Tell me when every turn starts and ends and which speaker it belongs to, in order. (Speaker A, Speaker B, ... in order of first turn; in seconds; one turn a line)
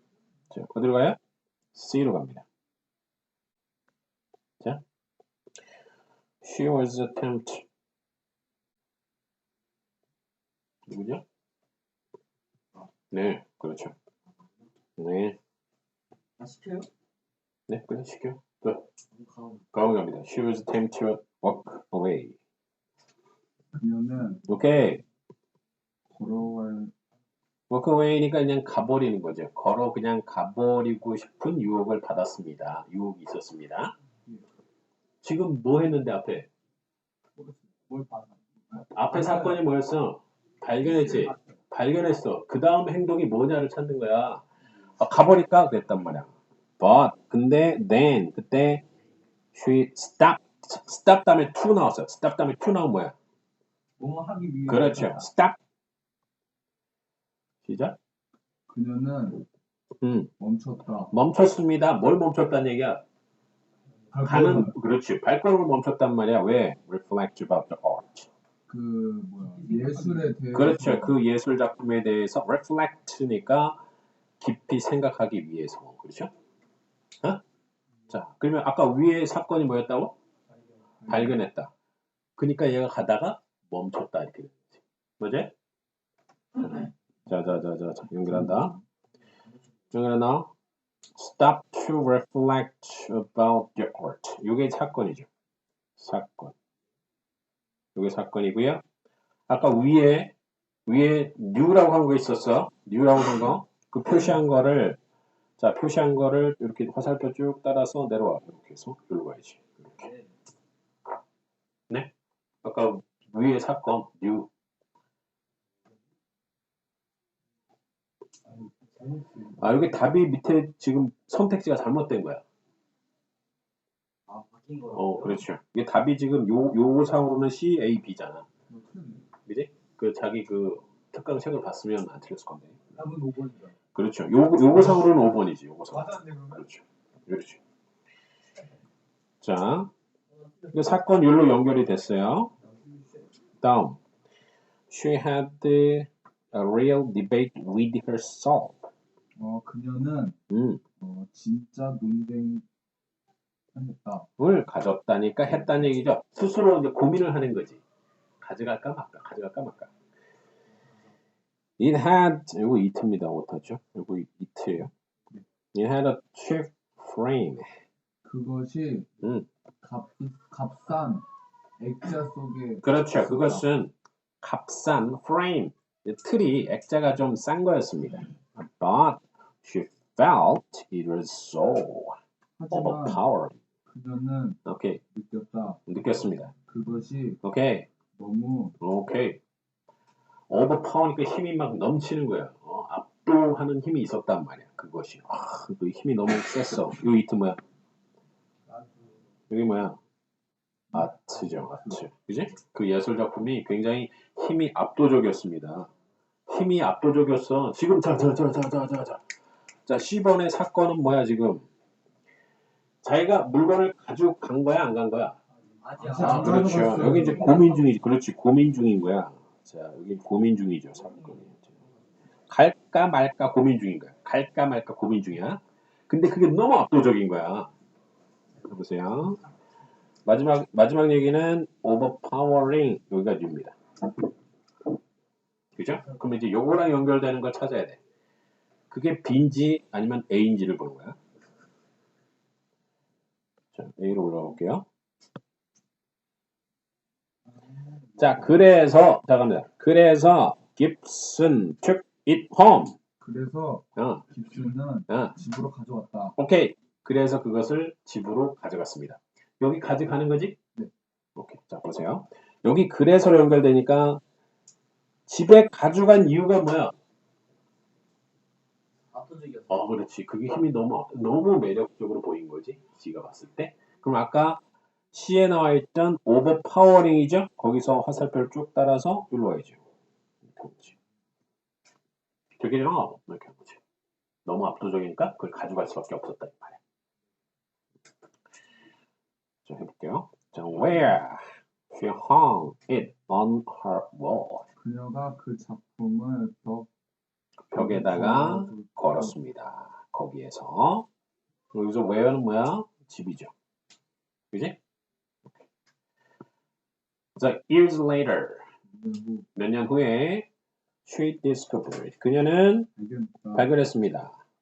Speaker A: 0.5-1.2
Speaker A: 1.7-2.5
Speaker A: 6.4-7.7
Speaker A: 10.9-11.2
Speaker A: 13.1-13.9
Speaker A: 15.0-15.4
Speaker B: 16.4-16.9
Speaker A: 17.7-18.9
Speaker B: 19.1-19.6
Speaker A: 19.7-22.4
Speaker C: 23.7-24.4
Speaker A: 24.5-25.0
Speaker C: 26.1-26.9
Speaker A: 27.7-33.9
Speaker A: 35.2-36.5
Speaker B: 37.9-38.4
Speaker A: 38.8-44.5
Speaker B: 39.1-39.4
Speaker B: 41.0-41.3
Speaker A: 45.0-48.8
Speaker A: 49.5-53.1
Speaker B: 54.0-55.2
Speaker A: 54.7-55.6
Speaker A: 57.6-58.0
Speaker C: 58.7-59.4
Speaker A: 60.0-60.3
Speaker C: 60.4-61.1
Speaker A: 61.1-63.0
Speaker C: 64.1-64.8
Speaker A: 64.2-68.3
Speaker C: 68.7-71.2
Speaker B: 69.4-70.4
Speaker A: 70.5-73.8
Speaker A: 74.4-76.3
Speaker A: 78.1-80.2
Speaker C: 81.0-81.4
Speaker A: 81.1-81.7
Speaker A: 82.4-85.5
Speaker A: 86.6-88.8
Speaker C: 88.2-88.8
Speaker A: 89.9-90.5
Speaker A: 91.2-95.3
Speaker A: 96.0-96.5
Speaker A: 98.0-98.8
Speaker A: 99.5-100.3
Speaker A: 100.9-105.0
Speaker A: 105.6-110.1
Speaker A: 112.6-114.5
Speaker B: 118.9-119.4
Speaker A: 119.5-122.4
Speaker B: 124.3-125.4
Speaker A: 124.9-128.5
Speaker C: 128.7-129.3
Speaker A: 129.5-132.9
Speaker B: 133.0-133.7
Speaker A: 133.9-137.6
Speaker B: 135.9-136.6
Speaker A: 139.4-139.9
Speaker A: 140.7-142.5
Speaker A: 143.6-144.0
Speaker A: 144.9-148.9
Speaker C: 149.4-150.4
Speaker A: 150.5-150.8
Speaker C: 151.0-152.7
Speaker C: 153.7-154.3
Speaker A: 154.4-157.8
Speaker A: 158.4-159.9
Speaker A: 161.8-164.9
Speaker A: 165.7-167.7
Speaker C: 168.2-169.1
Speaker A: 169.2-169.5
Speaker C: 169.8-171.3
Speaker C: 171.8-173.7
Speaker A: 172.8-182.2
Speaker C: 182.6-183.2
Speaker A: 182.7-183.6
Speaker C: 183.9-184.6
Speaker A: 184.7-185.0
Speaker C: 185.1-185.8
Speaker A: 185.9-186.5
Speaker C: 186.7-187.4
Speaker A: 187.4-187.9
Speaker C: 188.2-188.8
Speaker A: 188.8-189.4
Speaker A: 190.5-197.6
Speaker A: 199.5-200.0
Speaker C: 200.9-202.0
Speaker A: 200.9-205.9
Speaker A: 206.5-209.3
Speaker A: 209.9-211.7
Speaker A: 213.0-215.4
Speaker B: 215.8-217.4
Speaker C: 216.0-217.6
Speaker A: 216.1-221.8
Speaker A: 222.5-227.7
Speaker A: 228.6-229.4
Speaker A: 230.3-233.8
Speaker A: 235.8-238.0
Speaker A: 238.9-241.2
Speaker A: 243.7-244.9
Speaker A: 248.2-253.0
Speaker C: 253.2-256.4
Speaker A: 254.0-254.3
Speaker A: 255.1-255.4
Speaker A: 256.4-260.6
Speaker A: 261.4-264.2
Speaker A: 265.3-266.9
Speaker B: 269.1-269.7
Speaker A: 269.7-279.8
Speaker A: 280.5-280.9
Speaker A: 282.6-283.8
Speaker A: 284.5-286.8
Speaker A: 289.6-294.6
Speaker C: 294.8-296.9
Speaker A: 297.7-301.1
Speaker C: 297.7-299.3
Speaker A: 301.7-303.5
Speaker A: 304.5-304.8
Speaker A: 307.4-308.7
Speaker C: 308.9-309.5
Speaker A: 309.6-310.5
Speaker A: 311.1-312.9
Speaker C: 313.0-313.7
Speaker A: 313.5-314.4